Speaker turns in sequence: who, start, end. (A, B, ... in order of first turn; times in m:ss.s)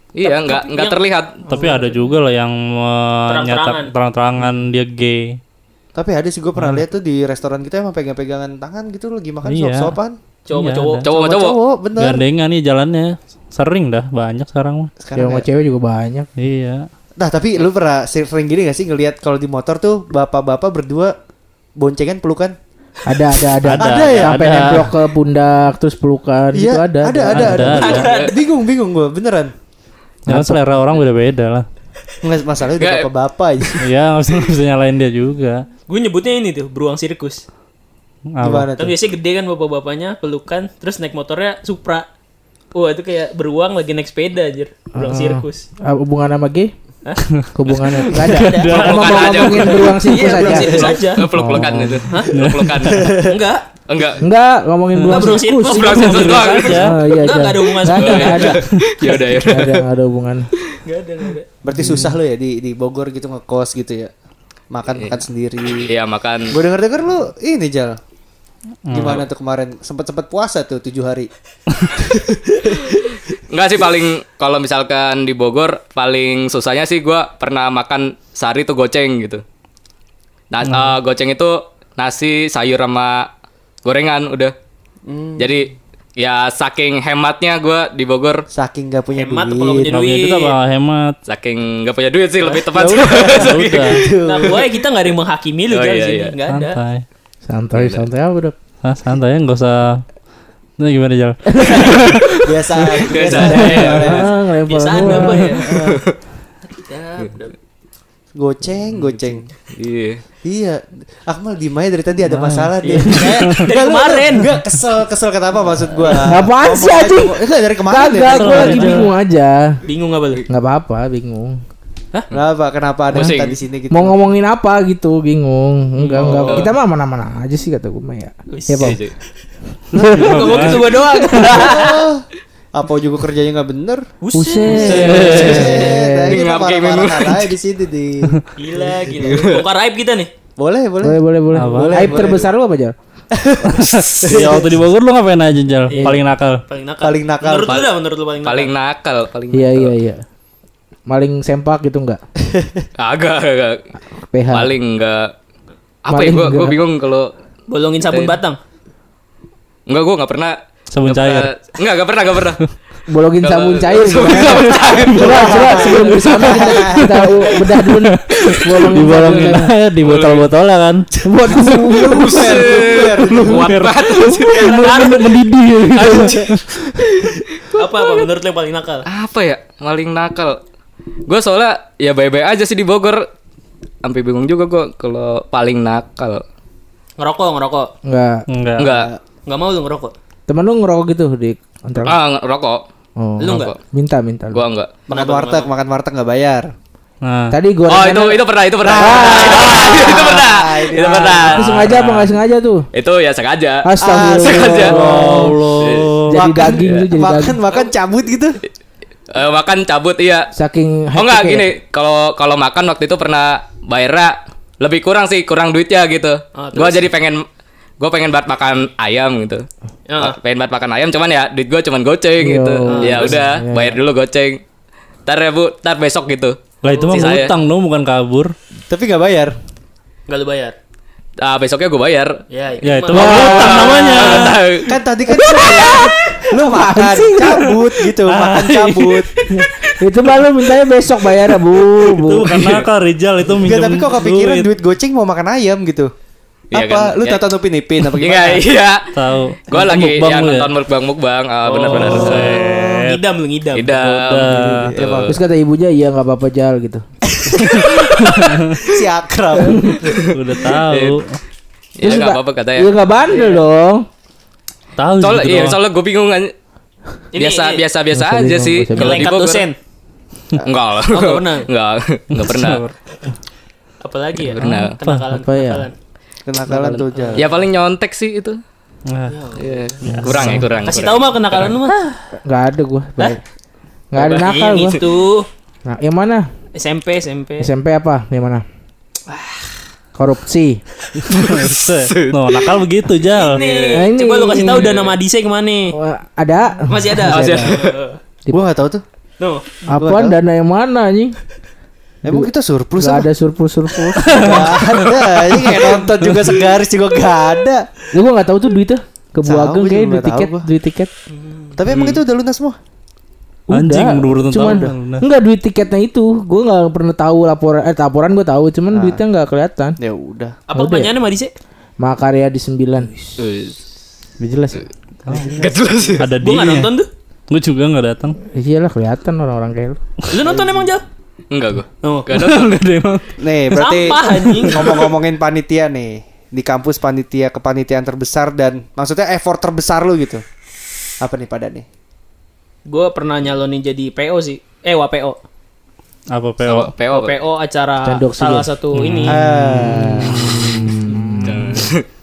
0:00.2-0:01.4 A
0:00.2-0:01.9 B
0:01.5-0:05.4 C
0:03.3-0:03.9 B
0:05.9-0:10.2 D
0:06.6-0:06.8 C
0:09.4-0:10.0 C
0:10.4-0:11.0 B
0:10.5-0:11.0 C
0:11.0-0:11.6 A
0:11.1-0:12.2 D
0:12.0-0:14.9 C
0:15.0-0:15.4 D
0:15.2-0:16.3 E
0:16.4-0:16.9 C
0:17.2-0:21.1 D
0:21.8-0:22.6 D
0:23.0-0:27.9 E
0:23.6-0:24.9 C
0:23.8-0:24.8 D
0:26.5-0:29.5 D
0:27.3-0:28.0 C
0:27.7-0:28.4 B
0:27.9-0:28.3 A
0:30.3-0:30.6 E
0:30.3-0:31.6 C
0:32.2-0:33.8 D
0:32.8-0:33.1 A
0:33.8-0:35.6 C
0:35.9-0:37.4 B
0:38.3-0:38.7 C
0:38.4-0:38.9 D
0:38.8-0:42.0 B
0:42.7-0:45.6 B
0:45.0-0:46.7 E
0:47.5-0:52.1 E
0:48.1-0:49.4 C
0:48.1-0:51.2 B
0:48.7-0:53.2 A
0:52.1-0:52.4 B
0:52.3-0:53.0 C
0:52.9-0:53.3 D
0:53.0-0:53.6 B
0:53.9-0:54.2 A
0:54.2-0:56.1 E
0:55.0-0:55.3 C
0:55.1-0:58.6 B
0:55.6-0:56.8 A
0:55.9-0:57.0 C
0:56.8-1:00.5 E
0:57.9-0:59.8 A
1:00.8-1:01.5 B
1:01.6-1:04.1 D
1:01.8-1:02.1 E
1:04.7-1:05.9 D
1:05.8-1:06.6 A
1:06.5-1:08.0 D
1:08.8-1:09.2 C
1:08.9-1:11.3 D
1:11.9-1:13.0 D
1:13.5-1:19.4 A
1:20.5-1:23.3 A
1:20.7-1:20.9 C
1:23.8-1:24.5 A
1:25.1-1:25.3 D
1:25.4-1:28.4 A
1:28.5-1:29.9 D
1:29.1-1:30.6 B
1:29.9-1:31.1 C
1:31.3-1:34.0 A
1:32.7-1:34.7 D
1:33.4-1:34.1 C
1:34.2-1:36.8 B
1:35.7-1:36.4 A
1:36.5-1:37.0 C
1:37.5-1:38.6 E
1:37.7-1:38.0 A
1:38.8-1:40.0 C
1:40.8-1:42.5 C
1:41.5-1:41.9 E
1:42.4-1:44.3 D
1:43.0-1:44.2 A
1:43.3-1:45.6 E
1:43.6-1:43.9 C
1:44.7-1:45.7 B
1:45.6-1:46.0 D
1:45.7-1:46.1 A
1:46.7-1:47.5 B
1:48.3-1:49.5 D
1:49.0-1:50.2 A
1:50.4-1:59.0 D
1:52.3-1:53.6 C
1:52.8-1:54.5 B
1:56.2-1:59.7 E
1:58.3-1:59.1 C
1:58.5-1:59.0 B
1:59.8-2:00.4 B
2:00.5-2:01.6 E
2:02.3-2:04.1 D
2:03.1-2:03.6 A
2:03.9-2:09.0 E
2:06.0-2:06.7 B
2:06.4-2:06.7 A
2:08.5-2:09.0 B
2:08.8-2:09.1 A
2:09.9-2:10.6 E
2:09.9-2:14.1 D
2:10.0-2:10.9 C
2:10.1-2:12.0 B
2:14.2-2:15.9 B
2:14.3-2:16.4 E
2:14.7-2:19.4 D
2:14.8-2:17.5 A
2:18.6-2:20.3 B
2:19.2-2:19.6 A
2:20.6-2:22.5 D
2:21.0-2:22.9 E
2:21.5-2:22.1 C
2:23.3-2:24.8 D
2:23.7-2:26.6 C
2:25.9-2:28.7 B
2:27.0-2:27.9 D
2:28.4-2:29.9 A
2:29.5-2:30.2 E
2:31.1-2:32.2 E
2:32.5-2:32.8 D
2:33.0-2:33.8 A
2:34.3-2:34.7 E
2:34.5-2:35.3 A
2:36.0-2:37.3 A
2:36.1-2:36.8 E
2:37.7-2:38.6 B
2:38.1-2:38.4 A
2:39.9-2:42.6 A
2:40.9-2:41.5 C
2:43.1-2:49.7 E
2:43.4-2:46.4 A
2:44.8-2:47.3 D
2:47.8-2:51.1 C
2:50.0-2:50.5 A
2:51.2-2:52.7 E
2:51.5-2:53.8 D
2:51.8-2:54.8 A
2:53.3-2:56.8 C
2:54.4-2:55.4 B
2:56.0-2:56.4 E
2:57.2-2:57.8 A
2:57.7-2:59.1 B
2:59.0-3:00.6 A
3:01.3-3:03.3 A
3:04.0-3:06.4 A
3:07.2-3:07.9 B
3:08.0-3:08.4 E
3:08.5-3:08.9 C
3:08.8-3:09.1 A
3:08.8-3:09.2 D
3:09.4-3:10.1 B
3:10.5-3:12.2 E
3:12.0-3:12.8 A
3:13.2-3:14.6 E
3:13.4-3:13.7 B
3:13.4-3:13.8 A
3:14.5-3:14.9 A
3:15.1-3:16.7 D
3:15.1-3:15.7 B
3:17.2-3:17.5 C
3:17.5-3:19.9 E
3:17.9-3:21.9 A
3:18.8-3:21.7 D
3:19.6-3:19.8 B
3:21.5-3:22.9 E
3:21.8-3:22.3 C
3:22.9-3:25.0 A
3:23.8-3:25.6 E
3:24.0-3:25.6 D
3:24.8-3:26.4 C
3:25.8-3:26.1 A
3:26.3-3:27.6 E
3:26.3-3:28.6 D
3:26.6-3:27.0 A
3:29.3-3:30.5 A
3:30.5-3:31.7 E
3:31.1-3:37.4 A
3:36.6-3:37.0 B
3:38.0-3:39.6 A
3:40.1-3:40.4 B
3:40.2-3:44.6 A
3:42.4-3:44.0 E
3:42.9-3:43.4 B
3:45.2-3:47.5 A
3:46.8-3:48.5 C
3:46.9-3:47.5 B
3:48.9-3:49.6 D
3:50.3-3:50.8 B
3:51.4-3:52.4 A
3:52.5-3:54.5 B
3:52.8-3:54.6 C
3:53.1-3:55.0 A
3:54.8-3:59.3 D
3:55.7-3:56.1 B
3:56.5-3:57.8 E
3:58.2-3:59.2 C
4:00.0-4:02.8 E
4:02.1-4:04.7 C
4:03.5-4:06.1 D
4:06.7-4:07.4 A
4:06.7-4:08.6 D
4:08.0-4:09.1 A
4:09.1-4:10.7 C
4:09.7-4:12.6 A
4:11.6-4:14.0 B
4:11.9-4:13.2 C
4:13.7-4:15.4 A
4:13.9-4:14.9 C
4:14.5-4:15.4 D
4:15.3-4:17.0 E
4:17.3-4:20.3 D
4:18.0-4:18.4 A
4:18.3-4:18.8 C
4:19.6-4:20.0 E
4:20.0-4:21.2 A
4:20.3-4:21.4 C
4:22.0-4:22.9 A
4:22.0-4:24.1 E
4:23.3-4:23.6 B
4:25.0-4:25.8 C
4:25.2-4:26.5 A
4:27.3-4:27.8 B
4:27.4-4:29.6 A
4:28.1-4:29.3 E
4:28.9-4:29.8 B
4:30.6-4:32.8 A
4:31.1-4:31.7 B
4:32.3-4:32.9 C
4:34.0-4:35.9 B
4:34.4-4:35.0 A
4:34.6-4:35.3 C
4:35.3-4:35.9 E
4:36.5-4:37.5 D
4:36.6-4:38.6 A
4:37.1-4:37.5 B
4:39.1-4:39.4 C
4:39.3-4:39.9 B
4:39.6-4:41.7 A
4:40.0-4:40.7 C
4:40.1-4:40.6 E
4:40.8-4:42.2 B
4:42.4-4:43.4 E
4:44.1-4:45.0 E
4:44.2-4:45.0 A
4:44.2-4:45.5 B
4:45.8-4:46.5 E
4:46.8-4:47.7 B
4:47.6-4:48.6 E
4:49.3-4:49.6 B
4:50.1-4:50.8 E
4:51.3-4:52.7 A
4:51.3-4:53.6 C
4:53.3-4:56.0 B
4:53.5-4:54.0 A
4:53.9-4:55.0 E
4:55.9-4:57.7 E
4:56.9-4:58.2 B
4:57.3-4:57.9 A
4:58.5-4:59.0 D
4:59.4-4:59.8 B
4:59.9-5:01.3 E
4:59.9-5:00.4 D
5:02.2-5:03.3 D
5:02.2-5:04.7 E
5:04.2-5:05.0 C
5:04.3-5:07.9 D
5:08.1-5:11.1 E
5:09.4-5:10.6 D
5:11.3-5:12.2 B
5:11.8-5:12.8 D
5:13.7-5:20.0 E
5:13.7-5:15.2 C
5:14.5-5:14.9 D
5:18.9-5:19.2 D
5:20.0-5:20.6 D
5:20.7-5:21.5 B
5:20.7-5:21.1 E
5:22.0-5:23.1 E
5:23.4-5:23.8 A
5:24.4-5:24.8 E
5:25.3-5:26.2 D
5:25.4-5:26.2 A
5:26.2-5:26.9 C
5:26.4-5:27.1 B
5:27.5-5:28.4 C
5:28.5-5:30.0 E
5:30.3-5:31.0 B
5:30.4-5:30.9 D
5:31.5-5:32.8 A
5:32.0-5:32.3 B
5:32.3-5:33.3 C
5:33.4-5:40.4 D
5:33.7-5:35.1 B
5:34.3-5:35.0 C
5:41.2-5:41.8 D
5:42.9-5:45.4 B
5:46.3-5:46.9 C
5:46.6-5:47.4 A
5:47.1-5:49.4 B
5:48.0-5:48.7 E
5:48.9-5:49.4 C
5:49.3-5:50.9 D
5:49.5-5:51.8 E
5:51.4-5:52.0 A